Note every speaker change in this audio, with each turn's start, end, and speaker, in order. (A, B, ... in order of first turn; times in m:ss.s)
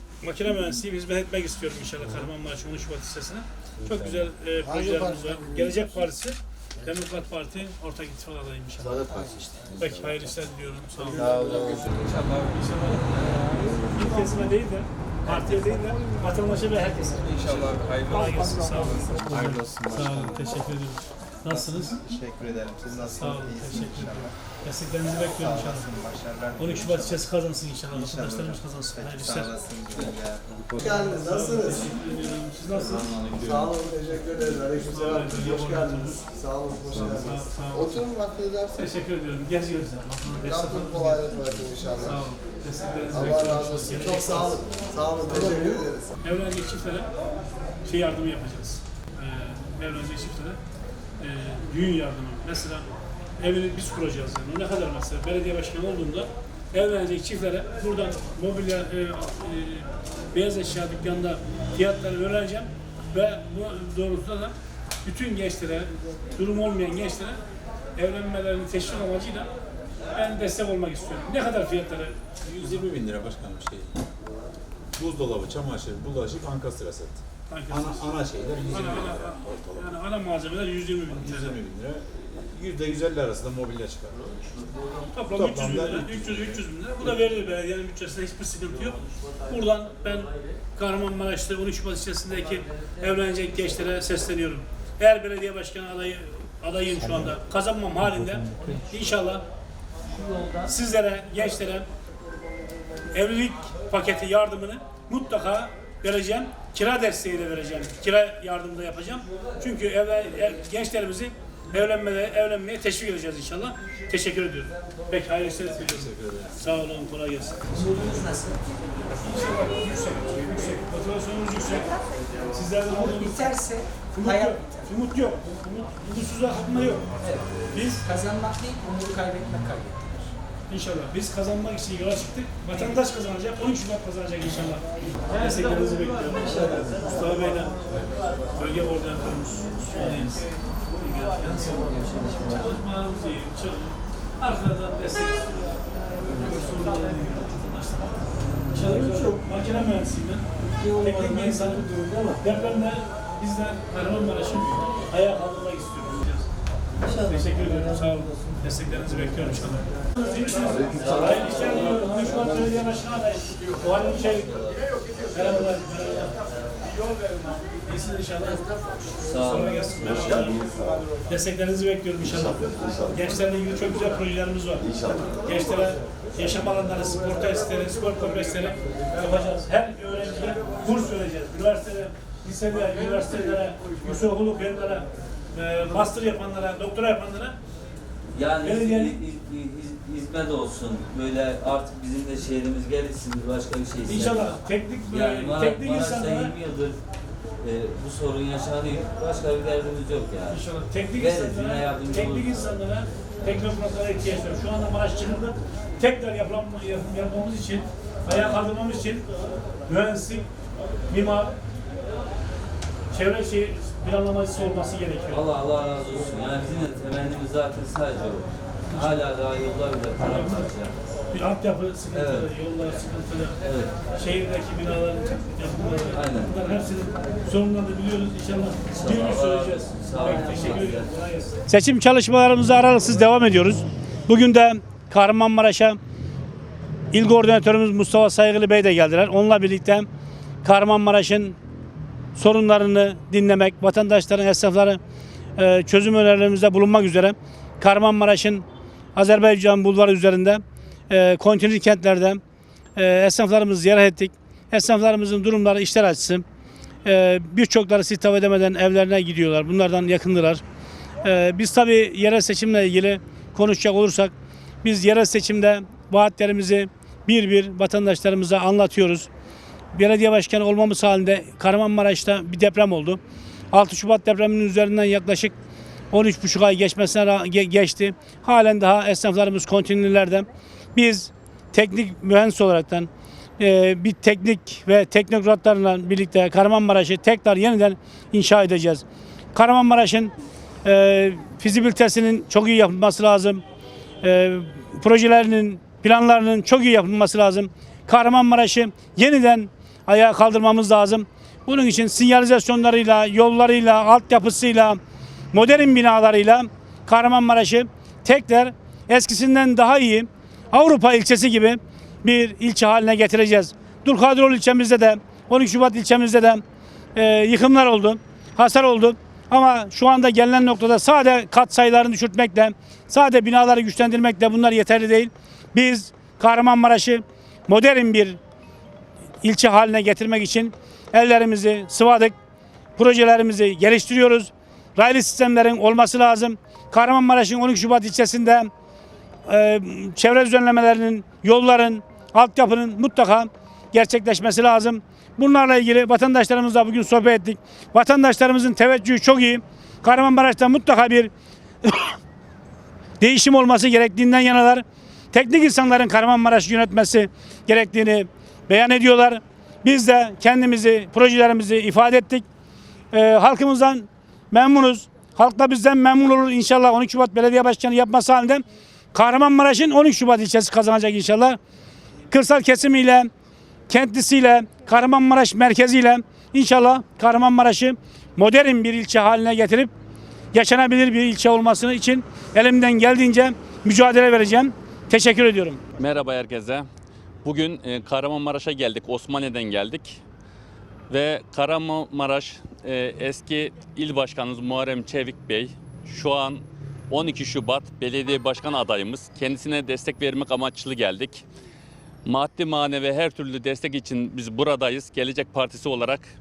0:00.2-0:09.1 A
0:04.8-0:05.4 B
0:08.9-0:09.9 C
0:09.7-0:11.6 A
0:11.1-0:12.1 C
0:12.1-0:12.4 D
0:12.5-0:13.2 A
0:13.8-0:22.0 A
0:17.4-0:18.3 D
0:21.5-0:24.3 C
0:23.0-0:25.9 A
0:25.4-0:27.2 C
0:26.6-0:29.5 A
0:27.9-0:30.8 C
0:30.8-0:33.4 A
0:30.8-0:31.9 B
0:33.0-0:33.6 D
0:33.4-0:38.7 B
0:34.6-0:36.3 A
0:36.9-0:38.1 A
0:38.7-0:44.6 A
0:40.4-0:42.2 B
0:43.1-0:46.1 B
0:46.2-0:47.1 A
0:47.8-0:50.6 A
0:51.2-0:52.9 A
0:53.4-1:07.4 A
1:08.0-1:09.5 A
1:10.1-1:12.2 A
1:12.4-1:14.0 D
1:15.0-1:19.9 D
1:17.5-1:18.1 A
1:18.7-1:21.6 A
1:21.1-1:24.3 D
1:25.1-1:39.4 A
1:25.3-1:26.6 D
1:40.2-1:40.5 E
1:40.6-1:41.9 A
1:43.1-1:58.0 A
1:55.9-1:56.5 D
1:57.7-1:58.6 F
1:59.2-2:01.9 A
2:02.5-2:03.6 A
2:02.9-2:04.9 F
2:04.1-2:07.1 A
2:07.7-2:08.0 A
2:08.0-2:10.3 F
2:10.7-2:17.8 A
2:18.5-2:21.9 A
2:21.6-2:22.7 E
2:22.5-2:28.1 A
2:28.7-2:30.4 A
2:31.0-2:36.5 A
2:37.0-2:44.6 A
2:40.9-2:42.1 E
2:45.3-2:46.4 A
2:47.7-2:48.6 A
2:49.2-2:50.3 E
2:49.3-2:50.7 A
2:51.2-3:07.6 A
3:08.3-3:17.0 E
3:08.6-3:09.2 A
3:14.0-3:16.5 A
3:17.6-3:20.6 E
3:20.5-3:29.2 A
3:21.2-3:22.7 E
3:28.2-3:28.6 E
3:29.9-3:30.5 A
3:31.1-3:31.5 A
3:33.1-3:35.4 A
3:35.3-3:40.9 E
3:38.9-3:39.2 A
3:40.2-3:40.7 A
3:41.3-3:56.0 A
3:42.1-3:42.5 E
3:43.6-3:43.9 E
3:46.1-3:46.5 E
3:48.9-3:51.1 E
3:57.1-4:00.1 A
4:00.6-4:01.6 A
4:02.3-4:05.0 A
4:05.6-4:08.6 A
4:09.2-4:12.4 A
4:13.0-4:16.4 A
4:17.0-4:20.6 A
4:21.2-4:24.3 A
4:24.8-4:29.3 A
4:29.9-4:33.2 A
4:33.7-4:35.5 A
4:36.1-4:53.6 A
4:54.2-5:05.0 A
5:05.5-5:16.6 A
5:17.2-5:28.4 A
5:29.4-5:32.3 A
5:33.0-5:38.7 A
5:39.5-5:51.3 A
5:51.8-5:52.2 A
5:53.2-6:02.4 A
6:03.1-6:11.6 A
6:12.3-6:13.3 A
6:13.9-6:19.9 A
6:20.5-6:25.8 A
6:25.9-6:26.9 G
6:27.4-6:30.2 G
6:31.1-6:41.4 G
6:42.2-6:46.3 G